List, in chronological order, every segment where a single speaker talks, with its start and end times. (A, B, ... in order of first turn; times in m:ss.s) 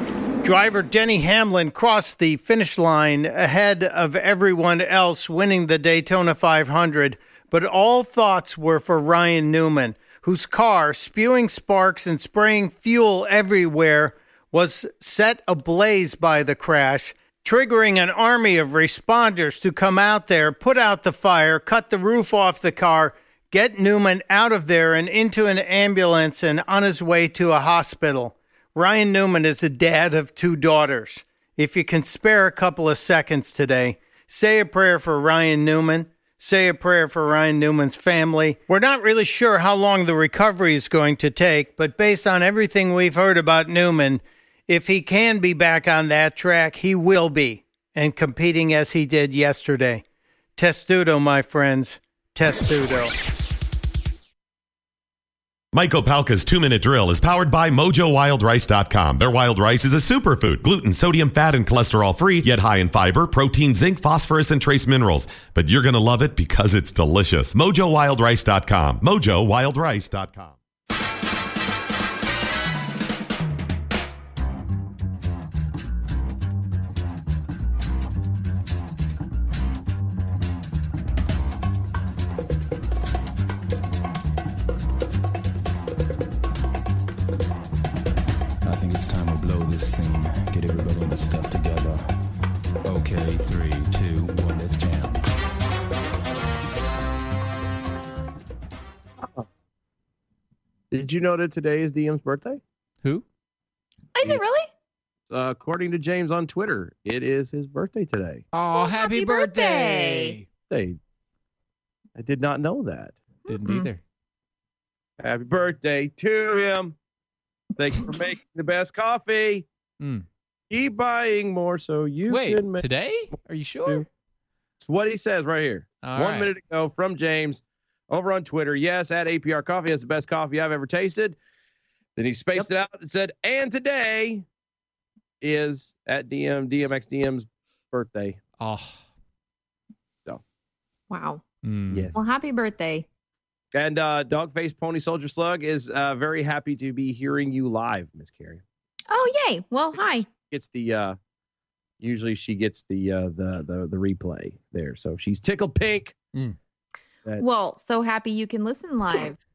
0:00.4-0:50.0 A
0:50.6-0:53.1 A
0:55.7-1:10.6 B
1:28.6-1:32.1 C
1:32.8-1:35.2 C
1:39.2-1:39.5 D
1:40.9-1:42.6 D
1:44.1-1:44.7 E
1:45.3-1:48.4 D
1:48.5-1:50.4 F
1:48.7-1:50.4 E
1:50.7-1:51.0 D
1:52.2-1:53.2 D
1:53.5-1:54.0 F
1:53.5-1:53.9 E
1:55.2-1:57.0 D
1:57.8-1:59.6 D
2:00.0-2:00.2 F
2:00.7-2:02.8 D
2:02.3-2:04.1 F
2:04.8-2:11.4 D
2:06.0-2:06.5 F
2:12.2-2:14.4 D
2:15.4-2:18.4 D
2:18.6-2:19.0 F
2:21.1-2:21.4 E
2:21.6-2:22.2 F
2:21.9-2:22.2 D
2:22.1-2:23.1 E
2:23.7-2:28.6 D
2:29.1-2:30.2 E
2:30.2-2:31.2 D
2:32.0-2:36.1 D
2:37.4-2:39.4 E